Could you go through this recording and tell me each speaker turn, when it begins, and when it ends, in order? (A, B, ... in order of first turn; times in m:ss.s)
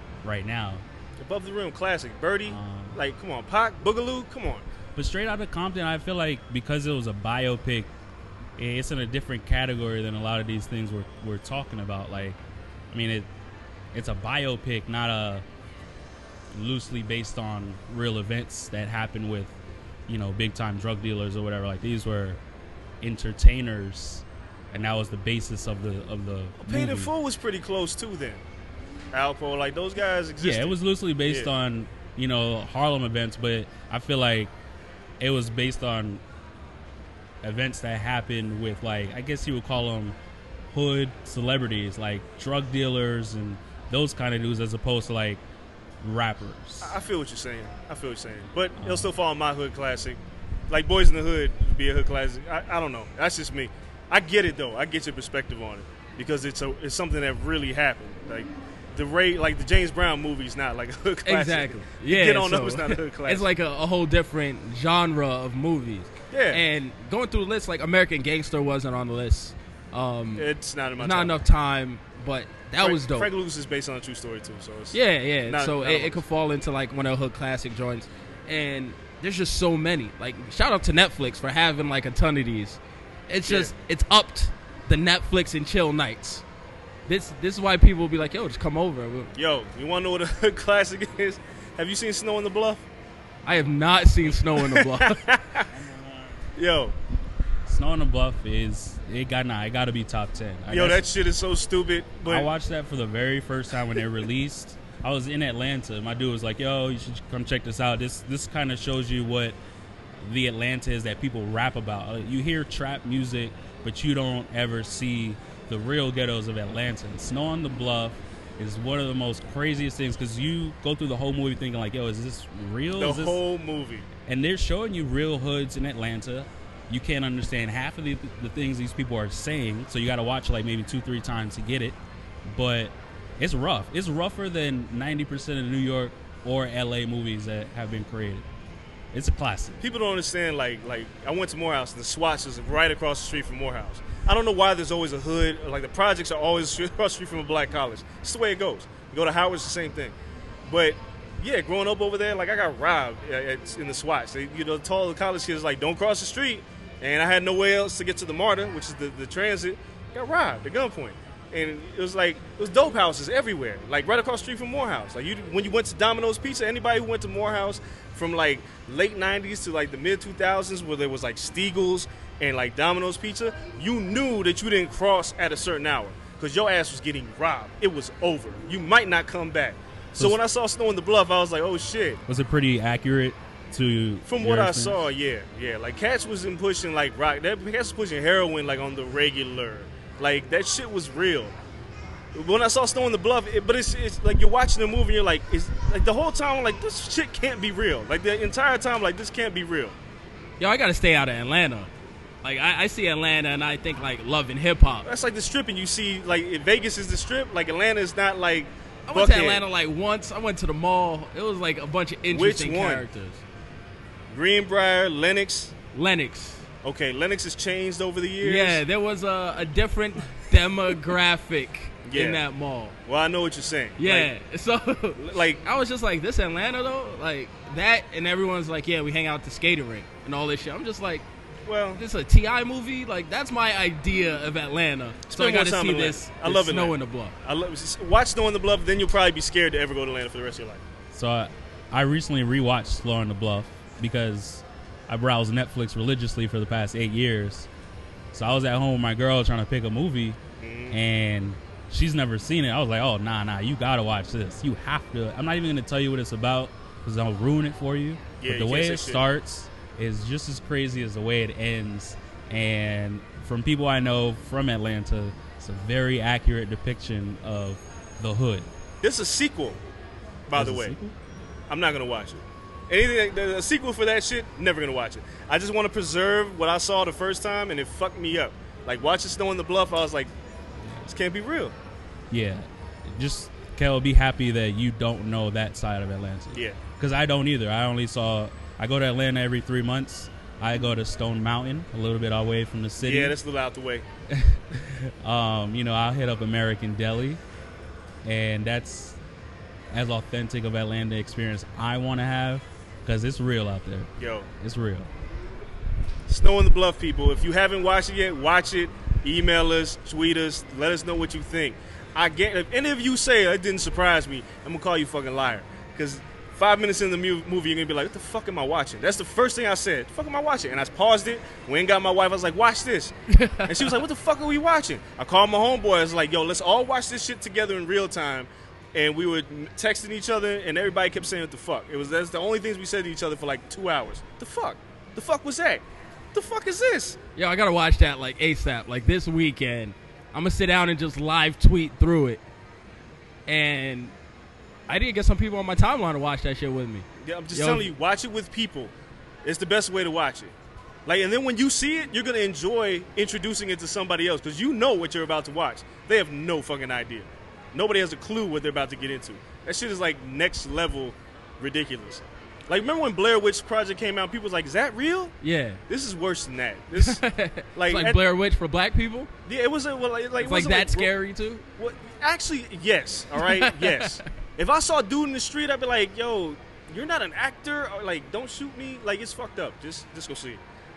0:00.2-0:00.8 A
0:01.2-0:04.6 B
0:02.5-0:03.0 A
0:05.0-0:07.9 A
0:08.6-0:12.4 A
0:12.9-0:13.3 A
0:13.9-0:15.4 A
0:16.5-0:19.6 A
0:20.1-0:22.4 A
0:23.0-0:27.1 A
0:26.6-0:28.4 B
0:29.1-0:30.8 B
0:30.4-0:34.5 A
0:35.2-0:36.2 A
0:37.4-0:40.2 A
0:40.7-0:45.4 A
0:46.0-0:47.0 A
0:46.8-0:50.2 B
0:48.8-0:49.1 A
0:50.7-1:03.5 B
1:01.2-1:10.5 C
1:06.3-1:06.6 B
1:10.4-1:11.4 B
1:11.0-1:13.3 C
1:12.8-1:16.2 B
1:14.9-1:26.4 C
1:23.4-1:23.7 B
1:27.1-1:29.3 C
1:29.3-1:32.8 B
1:33.4-1:35.2 C
1:34.6-1:35.7 B
1:35.7-1:36.4 A
1:36.6-1:36.9 B
1:37.6-1:41.0 A
1:40.7-1:42.5 B
1:42.2-1:49.6 A
1:50.2-2:03.4 A
2:03.0-2:04.1 B
2:04.2-2:12.0 A
2:12.5-2:18.4 A
2:19.1-2:19.8 A
2:19.8-2:30.1 B
2:30.6-3:02.2 B
3:02.3-3:05.0 A
3:04.3-3:11.5 B
3:12.3-3:20.0 B
3:20.6-3:21.9 C
3:22.4-3:25.1 C
3:25.0-3:29.6 B
3:29.1-3:33.4 C
3:32.3-3:33.0 B
3:34.3-3:35.7 B
3:35.9-3:36.6 C
3:36.8-3:38.8 B
3:38.4-3:42.9 C
3:42.0-3:42.4 B
3:43.0-3:44.3 B
3:44.0-3:51.2 C
3:45.1-3:45.6 B
3:51.6-3:52.0 B
3:52.0-3:57.3 C
3:55.3-4:00.8 B
4:01.1-4:07.7 A
4:08.3-4:10.4 A
4:10.6-4:11.0 B
4:10.9-4:28.7 A
4:18.4-4:19.2 B
4:29.0-4:29.8 B
4:30.5-4:31.0 B
4:30.6-4:31.1 A
4:31.7-4:40.3 B
4:41.1-4:41.7 B
4:42.3-4:53.4 A
4:46.5-4:46.8 B
4:53.0-4:54.0 B
4:54.3-4:57.4 A
4:58.2-4:59.2 A
4:59.9-5:04.1 A
5:04.2-5:04.5 B
5:04.6-5:05.1 A
5:06.3-5:37.2 B
5:23.3-5:24.0 C
5:37.4-5:42.4 C
5:43.5-5:44.1 C
5:44.9-5:47.9 C
5:47.2-5:48.9 B
5:49.4-5:50.5 B
5:51.0-6:05.3 B
6:05.4-6:05.8 C
6:05.9-6:07.2 B
6:06.9-6:09.3 C
6:07.8-6:08.2 B
6:09.4-6:11.1 B
6:10.4-6:11.6 C
6:11.8-6:20.6 B
6:13.4-6:14.2 C